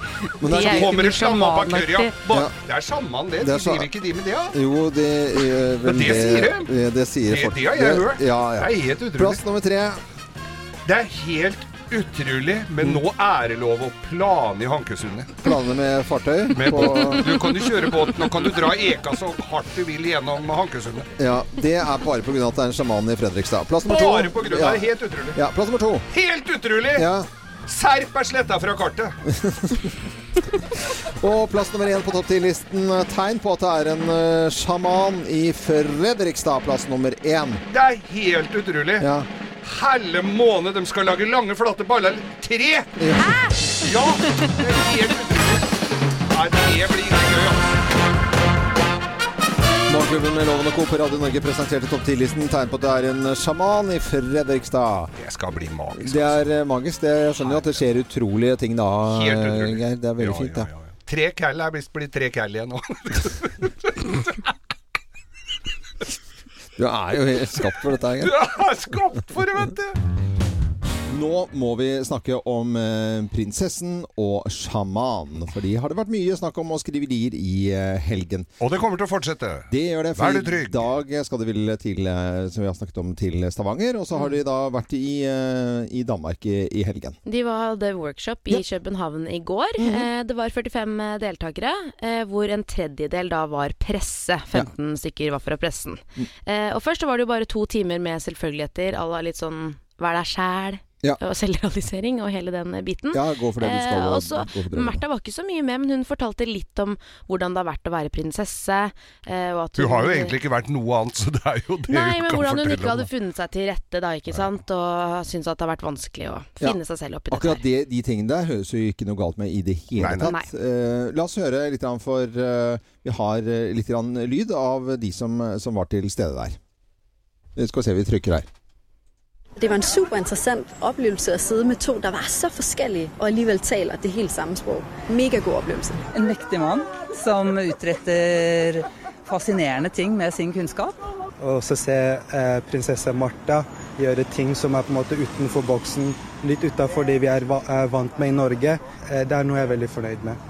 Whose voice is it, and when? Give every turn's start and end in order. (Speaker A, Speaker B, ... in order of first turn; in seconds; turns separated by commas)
Speaker A: 0.4-1.0, Speaker B: 0.4-2.1, Speaker C: 0.5-4.5, Speaker A: 3.4-3.9, Speaker A: 4.5-10.0, Speaker C: 5.8-6.7, Speaker C: 7.3-9.4, Speaker C: 10.8-15.3, Speaker A: 15.4-17.4, Speaker C: 16.5-21.1, Speaker A: 21.2-26.0, Speaker C: 23.9-25.4, Speaker C: 26.1-27.1, Speaker A: 26.9-27.3, Speaker C: 27.7-29.1, Speaker A: 29.2-29.9, Speaker A: 30.9-37.6, Speaker C: 37.7-39.1, Speaker A: 39.0-39.3, Speaker C: 39.6-42.9, Speaker A: 43.0-43.4, Speaker C: 43.7-45.6, Speaker C: 46.3-47.8, Speaker A: 49.9-55.1, Speaker C: 55.2-56.5, Speaker A: 56.0-60.7, Speaker C: 57.4-57.8, Speaker C: 59.1-64.4, Speaker A: 66.8-68.3, Speaker C: 68.2-69.9, Speaker A: 71.1-78.5, Speaker C: 78.6-80.8, Speaker A: 79.7-87.2, Speaker B: 87.2-110.3, Speaker A: 89.8-90.1, Speaker A: 103.1-105.0, Speaker C: 109.8-113.1, Speaker B: 111.9-117.6, Speaker A: 117.3-126.6, Speaker C: 120.0-120.3, Speaker A: 127.5-128.5, Speaker D: 129.6-136.0, Speaker E: 136.1-140.9, Speaker F: 141.4-150.4